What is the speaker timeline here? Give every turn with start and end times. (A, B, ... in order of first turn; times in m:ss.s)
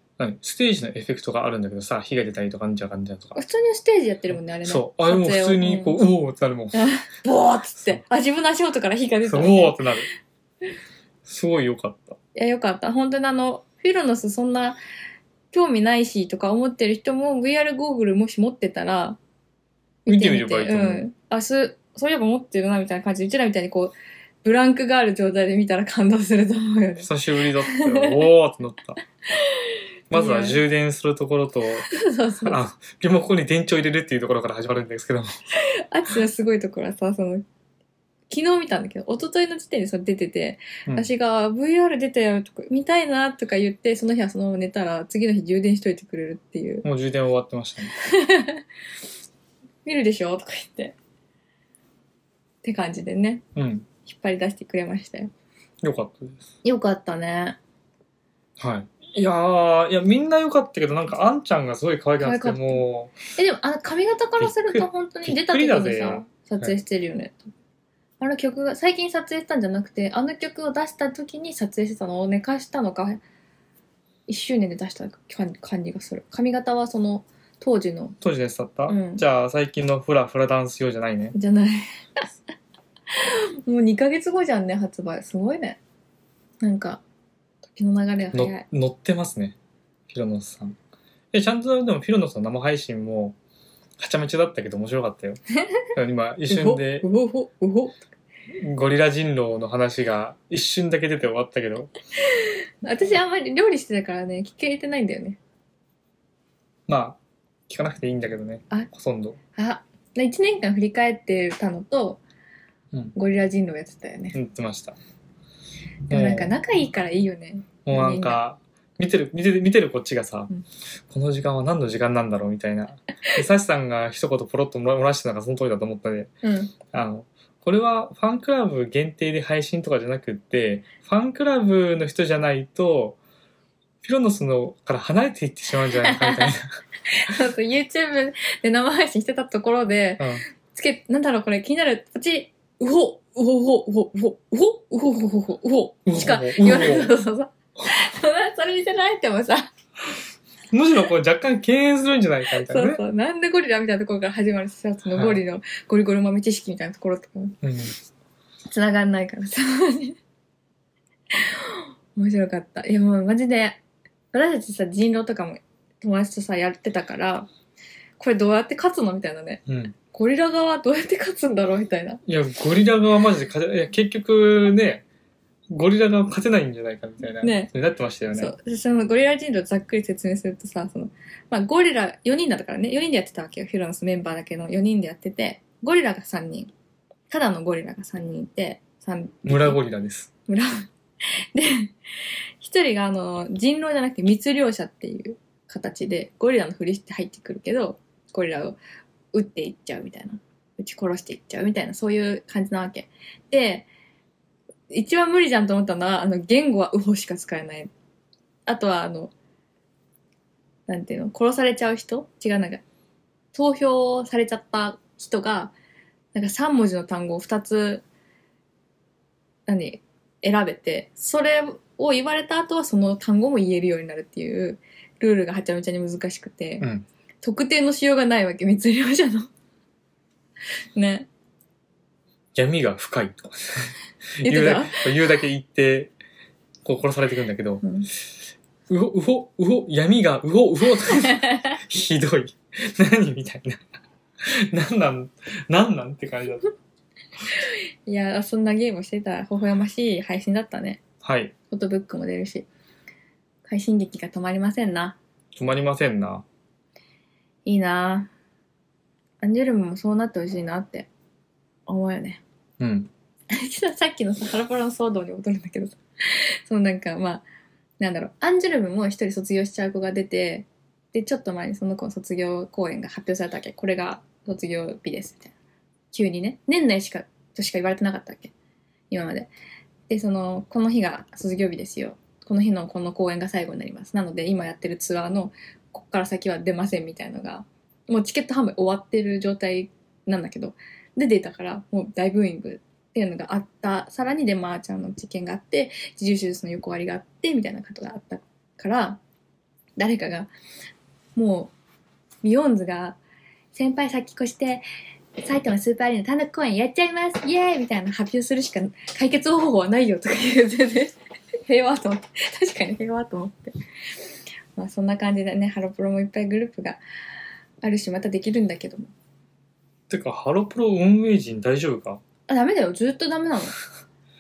0:00.2-0:03.4 A
0:03.4-0:06.0 B
0:04.6-0:06.9 A
0:06.7-0:09.9 B
0:09.2-0:10.1 A
0:11.2-0:12.2 A
0:12.4-0:14.8 B
0:15.5-0:19.2 B
0:20.1-0:27.1 B
0:20.1-0:21.1 A
0:27.0-0:29.0 A
0:27.6-0:28.2 B
0:29.3-0:30.6 B
0:30.1-0:31.9 A
0:31.9-0:32.6 B
0:32.4-0:35.3 A
0:35.5-0:37.4 B
0:38.3-0:46.8 B
0:46.8-0:48.0 A
0:48.0-0:48.6 B
0:49.8-0:51.0 B
0:52.6-0:53.4 B
0:53.6-0:53.9 A
0:54.0-0:55.3 B
0:55.8-0:56.4 A
0:56.6-0:57.6 B
0:58.6-1:03.2 A
1:02.2-1:02.8 B
1:03.4-1:07.5 B
1:04.4-1:06.8 A
1:08.2-1:13.2 B
1:14.3-1:18.2 B
1:18.2-1:21.4 A
1:18.9-1:19.2 B
1:21.3-1:22.3 B
1:23.1-1:25.8 B
1:26.6-1:27.0 B
1:27.6-1:28.6 B
1:28.3-1:29.6 A
1:30.1-1:30.8 A
1:31.3-1:33.4 A
1:34.0-1:35.4 A
1:35.9-1:37.1 A
1:36.5-1:38.0 B
1:38.6-1:41.9 A
1:42.2-1:45.4 B
1:46.9-1:49.4 A
1:49.6-1:52.2 B
1:53.1-1:54.4 B
1:54.3-1:55.0 A
1:56.1-1:56.5 A
1:56.1-1:58.4 B
1:57.8-2:00.5 A
2:01.1-2:06.3 A
2:06.4-2:06.7 B
2:06.9-2:13.2 A
2:14.0-2:16.8 A
2:15.9-2:29.7 B
2:20.2-2:20.4 A
2:26.1-2:27.1 A
2:30.7-2:33.0 A
2:32.5-2:37.6 B
2:35.1-2:35.4 A
2:37.6-2:37.9 A
2:38.7-2:40.2 B
2:41.3-2:43.8 B
2:44.3-2:47.5 B
2:48.2-2:52.2 B
2:49.7-2:50.0 A
2:52.2-2:55.0 A
2:55.7-2:58.5 A
2:57.4-2:57.7 B
2:58.4-3:06.7 B
3:07.3-3:09.8 B
3:09.5-3:10.3 A
3:10.5-3:18.8 B
3:19.3-3:23.9 B
3:24.9-3:27.9 B
3:28.6-3:29.3 B
3:30.9-3:32.8 B
3:33.5-3:35.7 B
3:36.3-3:38.0 B
3:39.7-3:46.9 B
3:46.8-3:47.1 A
3:47.4-3:49.5 B
3:51.0-3:51.3 B
3:52.5-3:56.1 A
3:54.4-3:55.1 B
3:56.8-3:57.8 A
3:57.8-3:58.1 B
3:58.9-4:03.8 A
4:04.4-4:06.7 A
4:07.5-4:11.0 B
4:11.2-4:11.5 A
4:11.7-4:12.7 B
4:13.6-4:15.2 B
4:15.6-4:16.4 A
4:17.6-4:18.3 B
4:19.4-4:21.1 B
4:21.9-4:22.4 B
4:22.8-4:23.1 A
4:23.5-4:27.4 B
4:28.0-4:35.5 B
4:36.1-4:38.5 B
4:39.1-4:39.5 B
4:40.1-4:59.2 B
5:00.0-5:00.5 B
5:01.4-5:01.7 B
5:02.4-5:03.2 B
5:03.7-5:04.8 B
5:05.4-5:13.7 B
5:14.8-5:17.0 B
5:17.8-5:19.1 B
5:20.1-5:22.2 A
5:22.5-5:23.8 B